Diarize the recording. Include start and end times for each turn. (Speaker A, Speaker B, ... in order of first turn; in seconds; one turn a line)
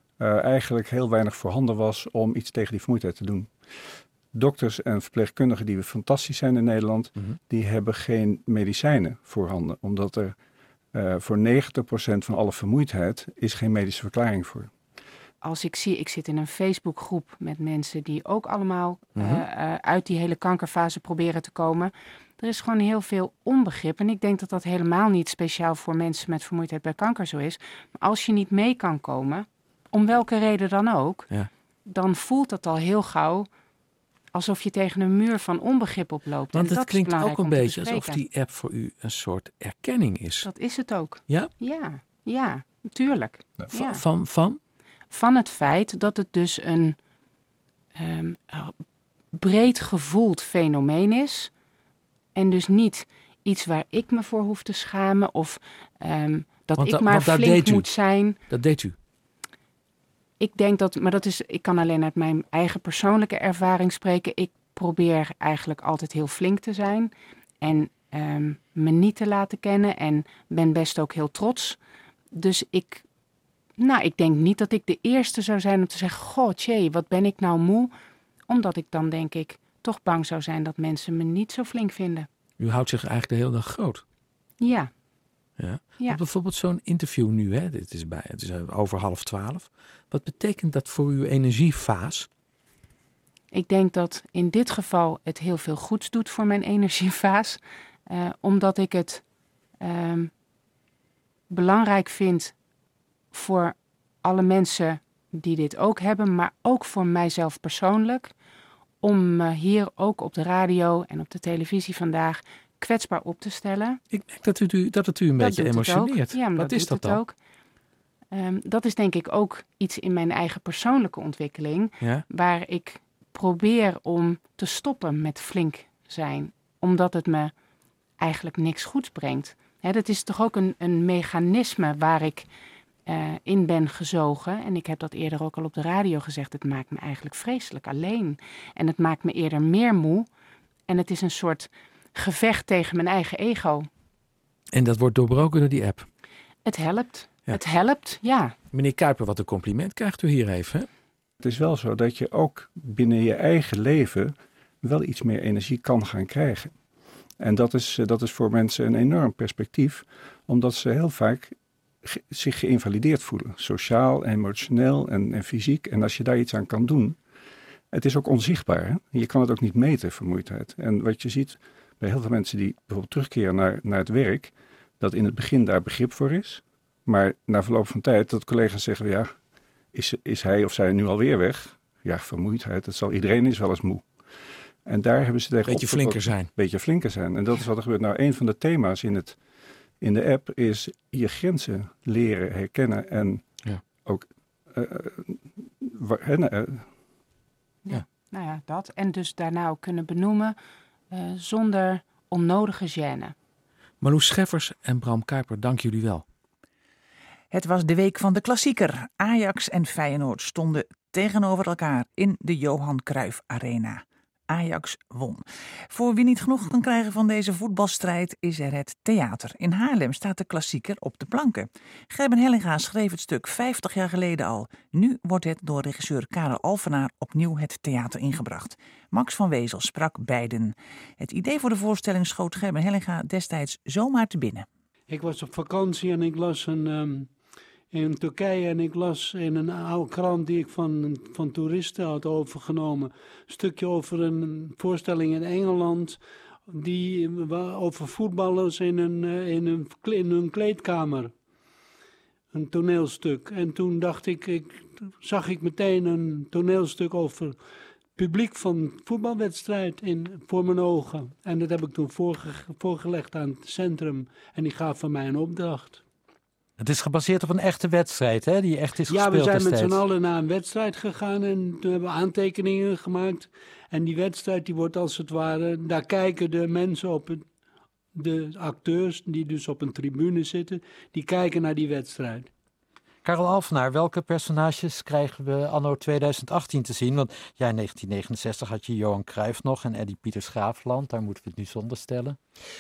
Speaker A: 0.2-10.4
Speaker A: 10.9-14.7
Speaker B: 15.4-31.3
Speaker C: 19.1-19.4
Speaker B: 31.9-33.5
Speaker B: 34.3-38.2
Speaker C: 36.5-40.5
Speaker B: 40.4-44.0
Speaker C: 41.3-41.5
Speaker C: 43.6-44.6
Speaker B: 45.1-47.0
Speaker B: 48.0-48.8
Speaker B: 49.4-51.5
Speaker B: 52.4-58.4
Speaker C: 56.8-59.0
Speaker B: 60.4-71.8
Speaker B: 72.3-73.0
Speaker B: 73.8-77.9
Speaker B: 78.5-82.3
Speaker C: 82.6-84.0
Speaker B: 84.6-84.9
Speaker C: 85.6-92.3
Speaker B: 93.5-99.2
Speaker B: 99.8-100.3
Speaker B: 101.5-102.5
Speaker B: 103.3-108.3
Speaker B: 109.0-114.0
Speaker C: 114.1-117.2
Speaker B: 115.4-117.4
Speaker B: 118.3-127.5
Speaker C: 122.0-122.2
Speaker B: 128.2-132.5
Speaker B: 133.1-140.3
Speaker B: 140.9-143.9
Speaker C: 144.7-146.1
Speaker B: 146.7-148.6
Speaker C: 148.7-150.9
Speaker A: 151.4-156.8
Speaker A: 157.4-167.2
Speaker A: 167.9-179.3
Speaker A: 179.9-184.1
Speaker A: 184.8-189.4
Speaker C: 185.7-186.5
Speaker A: 190.0-196.9
Speaker B: 197.9-200.6
Speaker B: 201.1-203.3
Speaker C: 204.0-206.2
Speaker D: 207.5-234.7
Speaker E: 235.1-237.3
Speaker E: 237.9-251.3
Speaker E: 252.5-257.6
Speaker E: 258.2-266.0
Speaker F: 266.8-270.0
Speaker E: 269.1-277.5
Speaker E: 278.1-282.5
Speaker F: 283.2-292.4